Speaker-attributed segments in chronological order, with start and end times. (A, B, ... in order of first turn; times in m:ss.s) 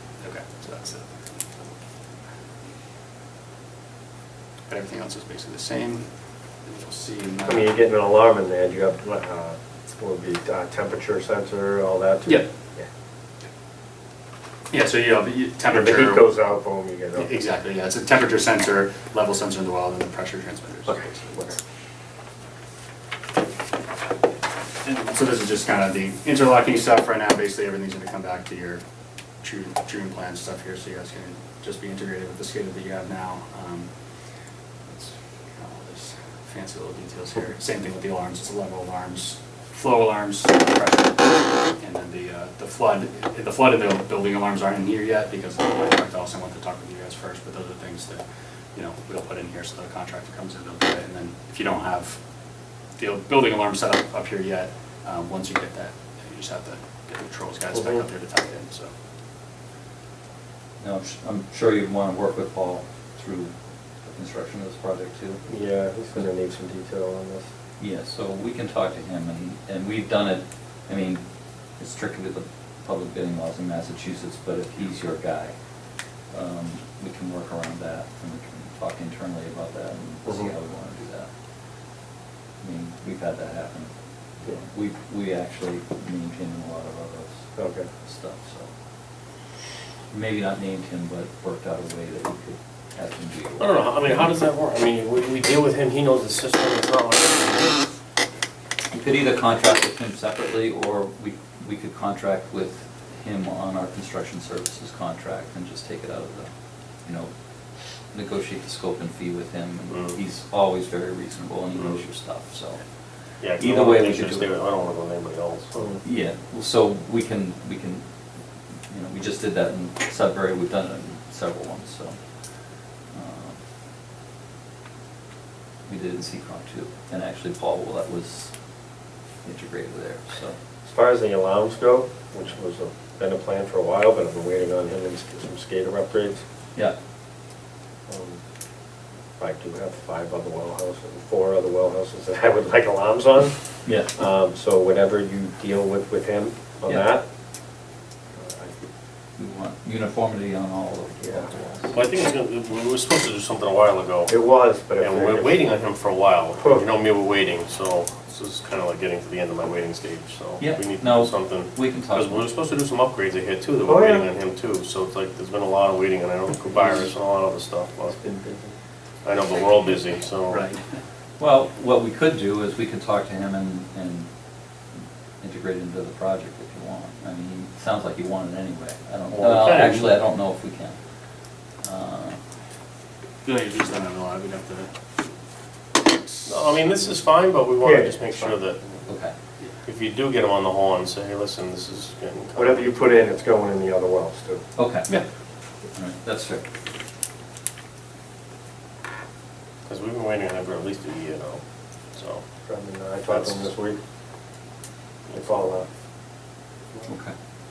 0:00.2-0:01.1 A
0:04.7-0:06.1 A
0:06.7-0:07.8 A
0:07.5-0:12.9 B
0:14.7-0:16.2 A
0:15.7-0:17.3 B
0:17.2-0:21.6 A
0:24.8-0:28.8 A
0:29.4-0:33.9 A
0:34.9-0:48.2 A
0:48.8-0:52.2 A
0:53.0-0:58.9 A
0:57.7-0:58.0 B
1:00.8-1:05.4 C
1:05.4-1:07.5 B
1:07.8-1:11.2 C
1:11.8-1:15.6 C
1:16.3-1:21.3 C
1:20.2-1:20.5 B
1:22.6-1:28.7 C
1:27.6-1:27.9 B
1:30.1-1:34.3 C
1:33.6-1:37.8 D
1:38.9-1:46.5 C
1:47.0-1:47.3 C
1:48.1-1:52.9 C
1:49.9-1:50.2 D
1:51.8-1:52.0 D
1:53.4-1:54.5 C
1:53.4-1:56.0 D
1:56.0-1:58.0 C
1:58.9-2:02.2 C
2:03.1-2:03.6 C
2:05.9-2:08.5 C
2:09.4-2:10.6 C
2:10.8-2:16.4 B
2:18.1-2:18.4 B
2:19.4-2:23.6 B
2:23.9-2:24.2 C
2:24.1-2:27.2 B
2:28.3-2:28.8 B
2:29.4-2:32.0 C
2:31.2-2:31.5 B
2:31.9-2:34.3 D
2:34.3-2:35.7 B
2:35.0-2:48.2 D
2:36.6-2:36.8 B
2:40.6-2:42.5 C
2:43.9-2:44.3 B
2:48.1-2:48.8 B
2:49.2-2:50.6 D
2:50.5-2:51.0 A
2:51.4-2:54.3 C
2:55.4-3:01.0 C
2:59.3-3:00.2 D
3:01.8-3:02.4 C
3:03.4-3:04.9 A
3:06.0-3:06.9 A
3:06.5-3:09.1 D
3:07.8-3:08.6 B
3:09.1-3:09.3 C
3:09.8-3:13.0 D
3:12.6-3:14.6 B
3:14.8-3:15.2 C
3:15.9-3:16.6 C
3:19.8-3:21.6 D
3:22.1-3:22.5 D
3:22.7-3:24.0 B
3:23.3-3:23.7 D
3:25.3-3:25.8 D
3:25.3-3:25.9 B
3:27.0-3:27.3 C